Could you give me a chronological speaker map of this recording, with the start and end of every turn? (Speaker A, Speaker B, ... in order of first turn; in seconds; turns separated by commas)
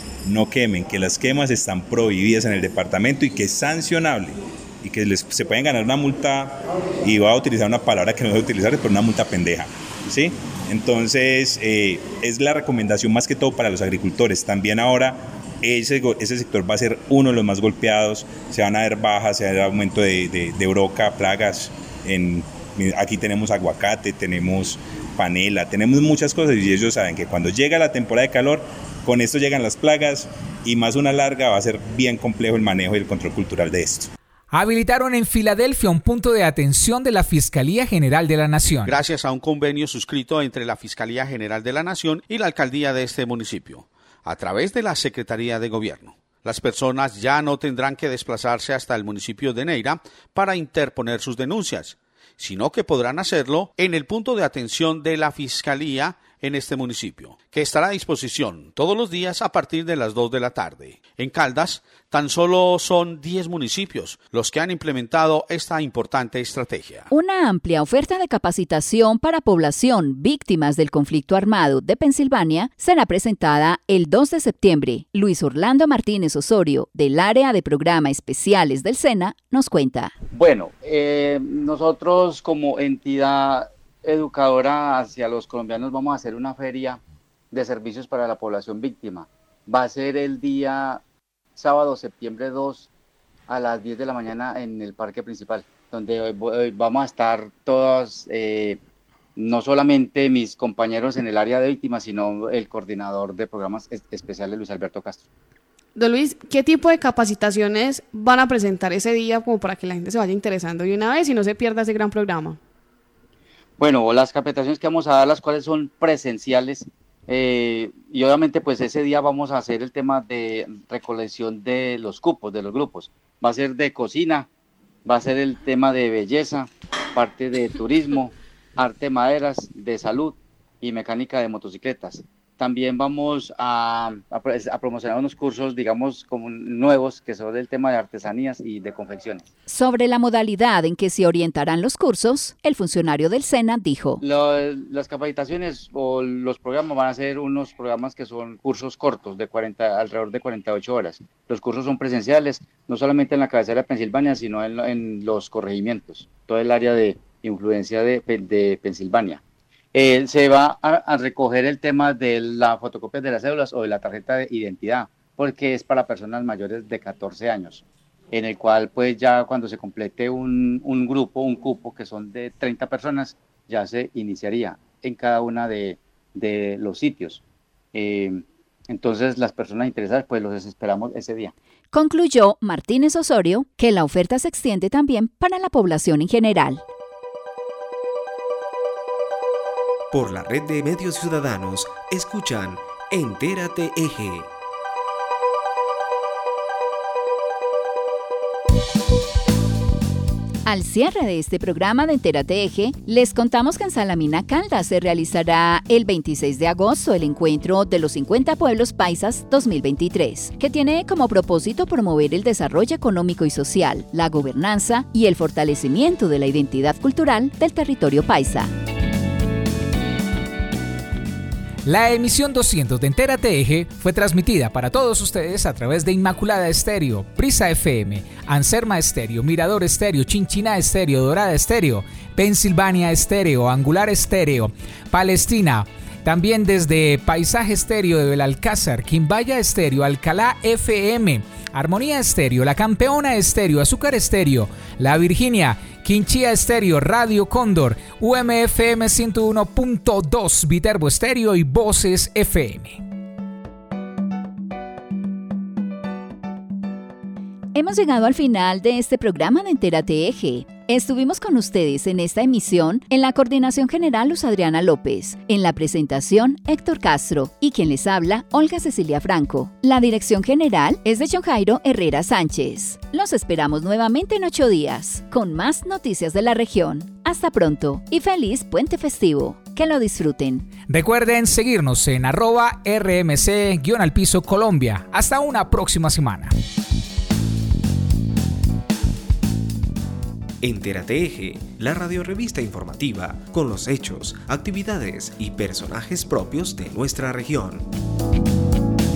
Speaker A: 0.3-34.1, Speaker B: 34.5-39.0, Speaker C: 38.9-67.1, Speaker D: 67.1-80.1, Speaker E: 80.3-87.0, Speaker E: 87.5-91.0, Speaker E: 91.6-92.9, Speaker E: 93.5-98.8, Speaker E: 99.4-105.2, Speaker F: 106.0-112.6, Speaker E: 113.8-124.5, Speaker E: 125.1-139.5, Speaker D: 139.7-144.2, Speaker E: 144.2-159.4, Speaker E: 159.9-177.4, Speaker E: 177.9-181.5, Speaker D: 181.9-186.8, Speaker G: 190.1-194.5, Speaker D: 200.7-218.7, Speaker B: 221.8-253.0, Speaker D: 257.8-280.7, Speaker B: 280.9-286.5, Speaker G: 290.6-297.9